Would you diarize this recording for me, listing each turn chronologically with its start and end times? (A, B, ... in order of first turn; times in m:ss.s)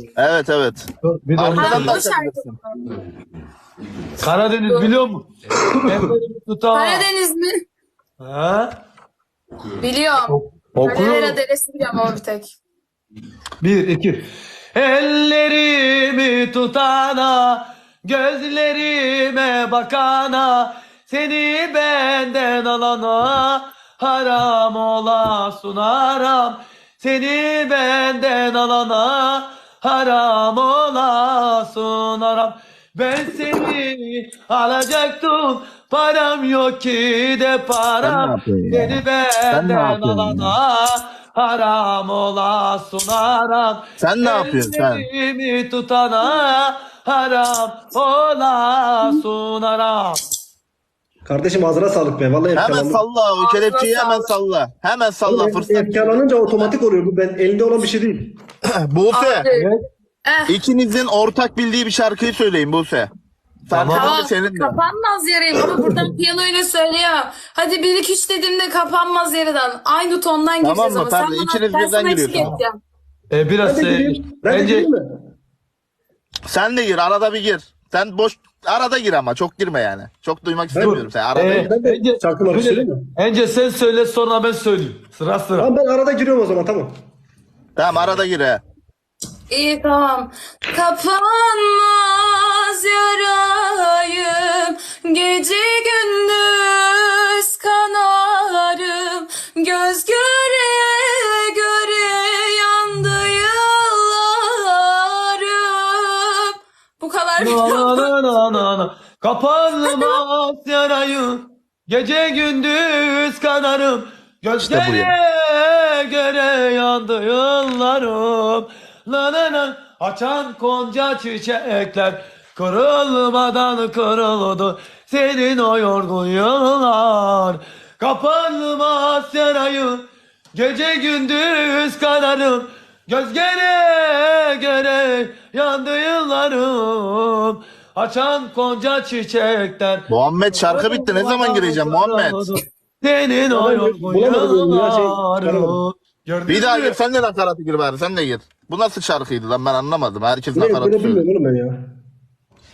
0:00.2-0:02.6 A
0:01.0-0:02.0 B
0:01.5-0:03.0 C
0:04.2-0:07.0 B
0:04.6-0:04.9 C
0:06.7-0:07.6 C
0:08.2-0:08.7 B
0:09.8-0:12.5 C
0:10.3-0:11.4 B
0:13.6-0:50.2 B
0:38.0-0:39.0 A
0:39.5-0:40.6 A
0:44.0-0:45.0 A
0:51.2-0:53.0 D
0:52.5-0:56.2 A
0:53.4-0:54.3 C
0:55.2-0:58.3 D
0:58.8-0:59.5 A
0:59.1-0:59.7 C
0:59.5-0:59.8 B
1:00.2-1:00.5 C
1:00.5-1:03.1 A
1:03.7-1:04.8 A
1:03.7-1:04.1 B
1:03.9-1:12.8 C
1:10.6-1:12.6 A
1:13.3-1:14.9 B
1:13.6-1:15.1 D
1:16.5-1:21.7 A
1:20.7-1:23.0 D
1:20.8-1:25.7 B
1:25.6-1:26.9 D
1:27.8-1:28.6 A
1:29.5-1:48.6 C
1:47.4-2:20.0 B
1:49.8-1:50.2 C
1:54.6-1:55.1 A
2:20.1-2:22.5 A
2:20.6-2:27.0 B
2:23.5-2:25.8 D
2:26.5-2:31.2 A
2:30.5-2:31.8 D